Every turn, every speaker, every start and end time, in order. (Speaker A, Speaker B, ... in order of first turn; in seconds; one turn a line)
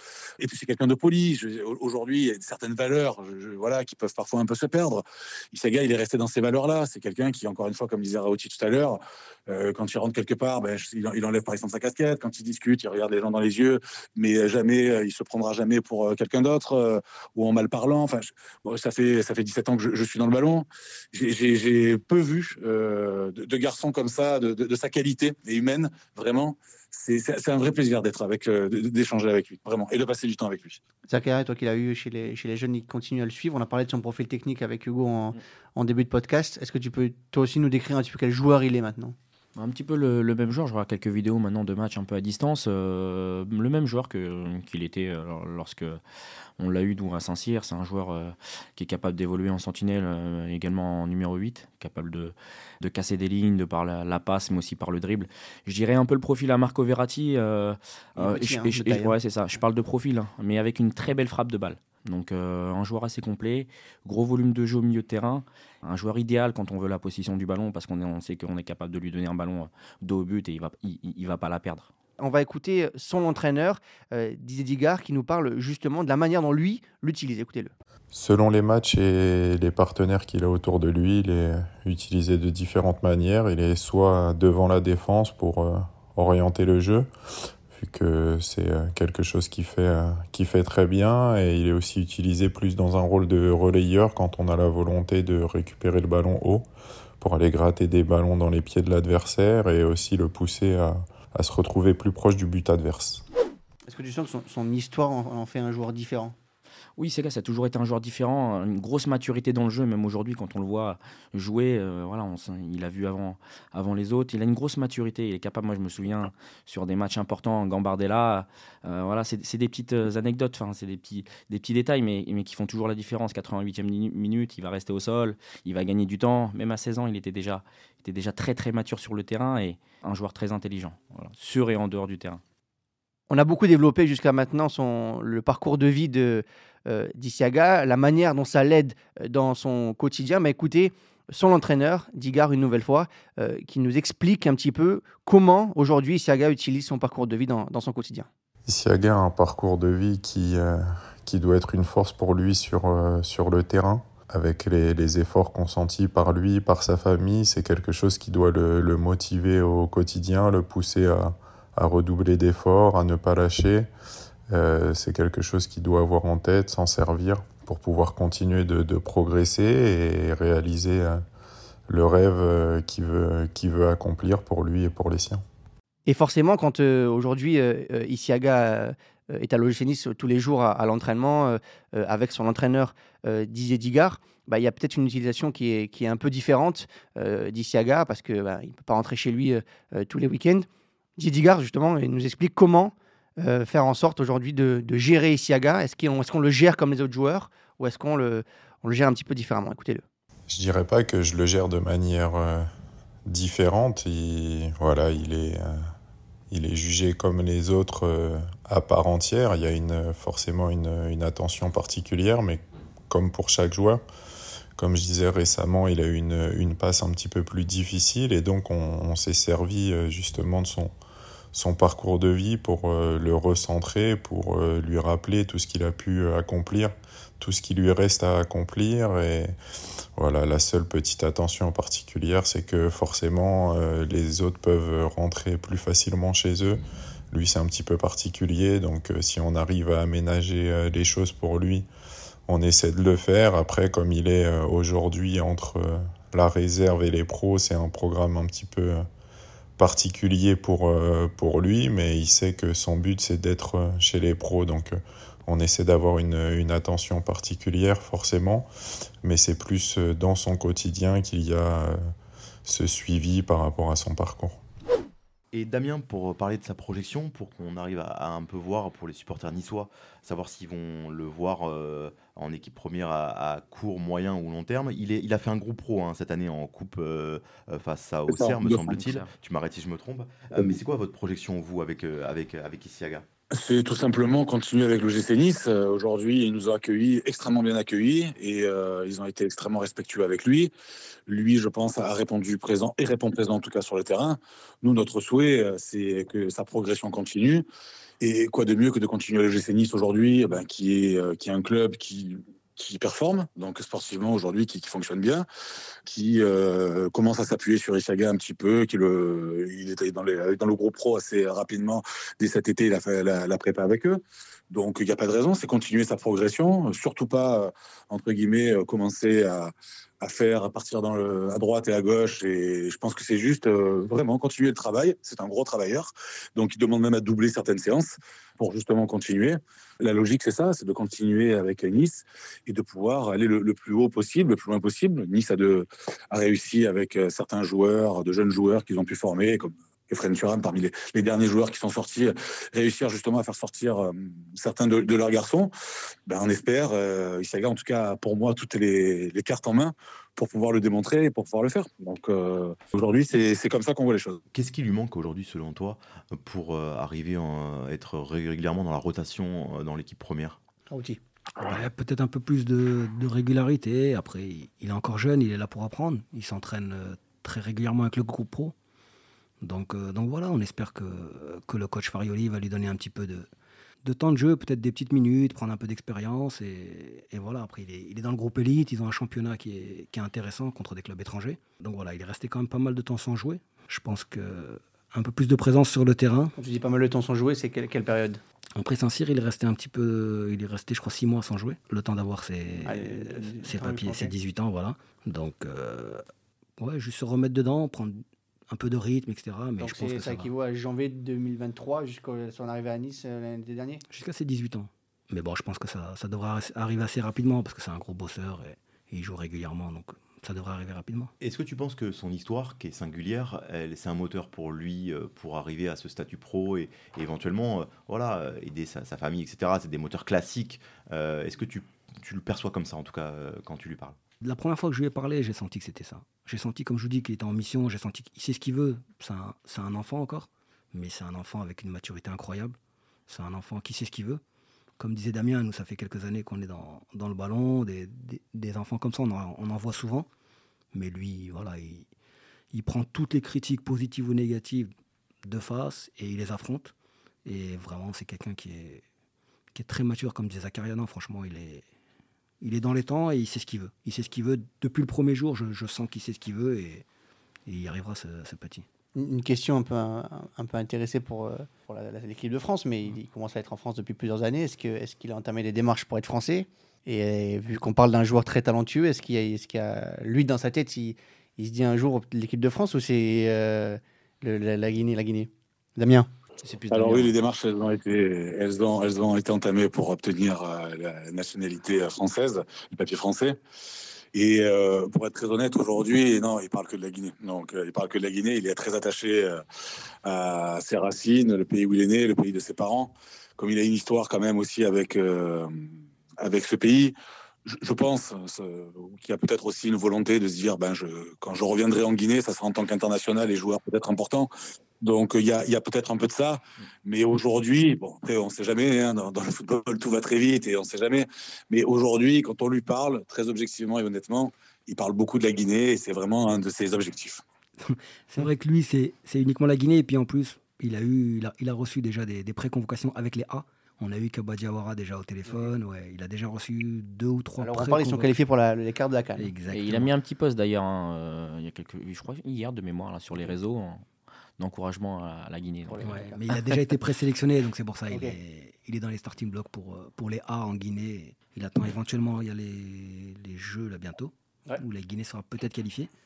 Speaker A: 0.4-30.8
Speaker B: 31.1-39.1
Speaker C: 39.5-46.0
Speaker C: 46.6-71.9
Speaker B: 58.2-59.2
Speaker B: 72.2-77.7
Speaker D: 78.1-87.1
Speaker D: 87.7-96.7
Speaker D: 97.2-103.2
Speaker B: 103.9-106.3
Speaker C: 107.0-132.4
Speaker B: 133.3-148.3
Speaker D: 148.7-163.9
Speaker D: 164.5-171.2
Speaker D: 171.9-175.4
Speaker B: 176.1-200.0
Speaker D: 200.5-202.7
Speaker D: 203.2-205.8
Speaker D: 206.5-214.0
Speaker D: 214.8-220.9
Speaker D: 221.5-229.6
Speaker D: 230.2-236.8
Speaker D: 237.3-241.8
Speaker D: 242.5-249.1
Speaker D: 249.8-258.7
Speaker D: 259.2-262.0
Speaker D: 262.6-264.6
Speaker E: 265.5-283.2
Speaker A: 278.3-278.8
Speaker C: 278.7-279.3
Speaker A: 283.5-290.7
Speaker A: 291.3-297.6
Speaker A: 298.2-305.4
Speaker A: 306.1-345.7
Speaker A: 346.3-354.4
Speaker E: 354.5-360.6
Speaker B: 360.9-361.2
Speaker F: 361.6-368.7
Speaker F: 369.6-373.5
Speaker F: 374.0-386.6
Speaker B: 386.6-388.4
Speaker F: 388.8-396.2
Speaker B: 392.9-394.3
Speaker F: 396.8-400.5
Speaker B: 399.8-404.0
Speaker F: 404.1-411.3
Speaker E: 411.4-424.2
Speaker F: 424.4-434.4
Speaker F: 435.0-440.3
Speaker F: 440.9-442.1
Speaker F: 442.7-444.9
Speaker F: 445.4-446.9
Speaker F: 447.4-449.0
Speaker F: 449.7-451.8
Speaker F: 452.6-457.1
Speaker F: 457.6-458.8
Speaker B: 459.1-476.3
Speaker C: 476.6-477.3
Speaker A: 476.9-483.6
Speaker A: 484.3-489.6
Speaker A: 490.2-495.9
Speaker A: 496.4-497.1
Speaker A: 497.6-504.5
Speaker A: 505.0-517.4
Speaker F: 517.8-528.3
Speaker B: 527.6-529.5
Speaker F: 529.4-530.1
Speaker C: 529.7-534.0
Speaker C: 534.6-536.2
Speaker B: 535.9-536.4
Speaker F: 536.0-546.1
Speaker B: 538.1-538.4